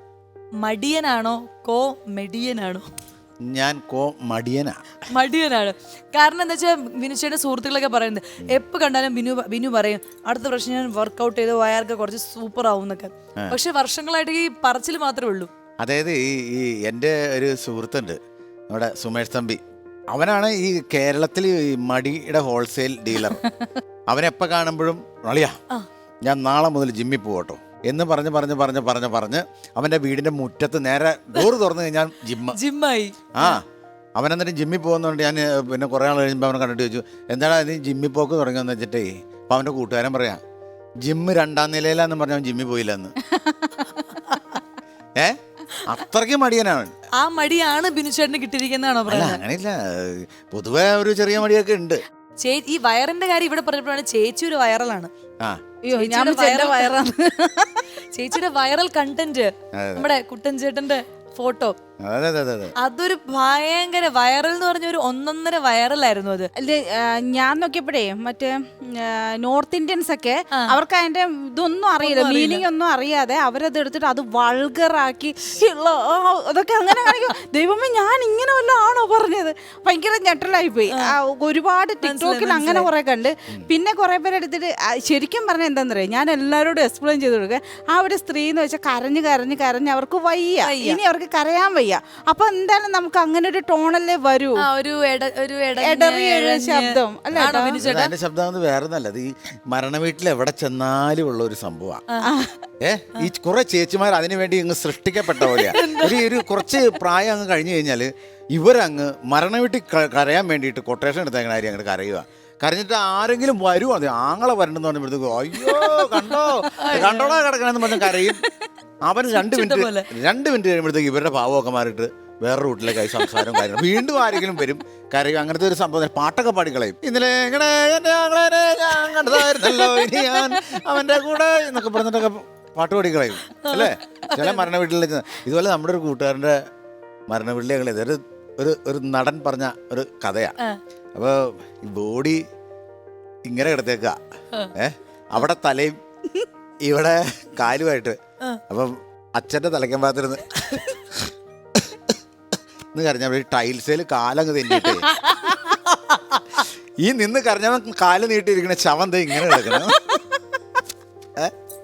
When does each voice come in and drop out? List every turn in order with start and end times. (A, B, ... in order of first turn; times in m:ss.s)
0:00.6-0:02.8 A
0:03.4-0:04.9 B
0:05.1-0:15.5 A
0:15.8-0:18.2 B
0:18.7-0:23.4 B
0:24.1-0:25.6 B
0:26.2-0:32.6 B
0:32.5-0:33.6 A
0:33.3-0:33.6 B
0:34.2-0:40.4 B
0:41.0-0:43.1 B
0:43.3-0:44.1 C
0:45.2-0:46.9 B
0:47.2-0:49.4 A
0:49.1-0:52.0 B
0:52.4-0:55.1 A
0:55.8-0:57.8 C
0:55.9-0:57.0 A
0:58.1-1:01.8 A
0:59.7-1:00.1 B
1:02.0-1:02.7 B
1:02.8-1:06.5 A
1:06.6-1:34.6 C
1:12.0-1:12.6 A
1:22.0-1:22.9 A
1:30.6-1:31.0 A
1:34.6-1:38.1 A
1:35.8-1:37.8 C
1:37.4-1:42.0 B
1:42.2-1:42.6 C
1:42.8-1:58.4 B
1:45.4-1:46.3 A
1:55.6-1:58.5 A
1:59.0-2:16.6 B
1:59.3-2:00.1 A
2:03.1-2:03.5 A
2:09.4-2:10.6 A
2:13.6-2:14.6 A
2:17.3-2:20.6 B
2:21.1-2:22.4 B
2:23.4-2:24.2 B
2:24.7-2:26.0 B
2:26.8-2:28.2 B
2:28.7-2:32.2 B
2:32.9-2:35.1 B
2:34.8-2:35.8 A
2:36.6-2:40.2 B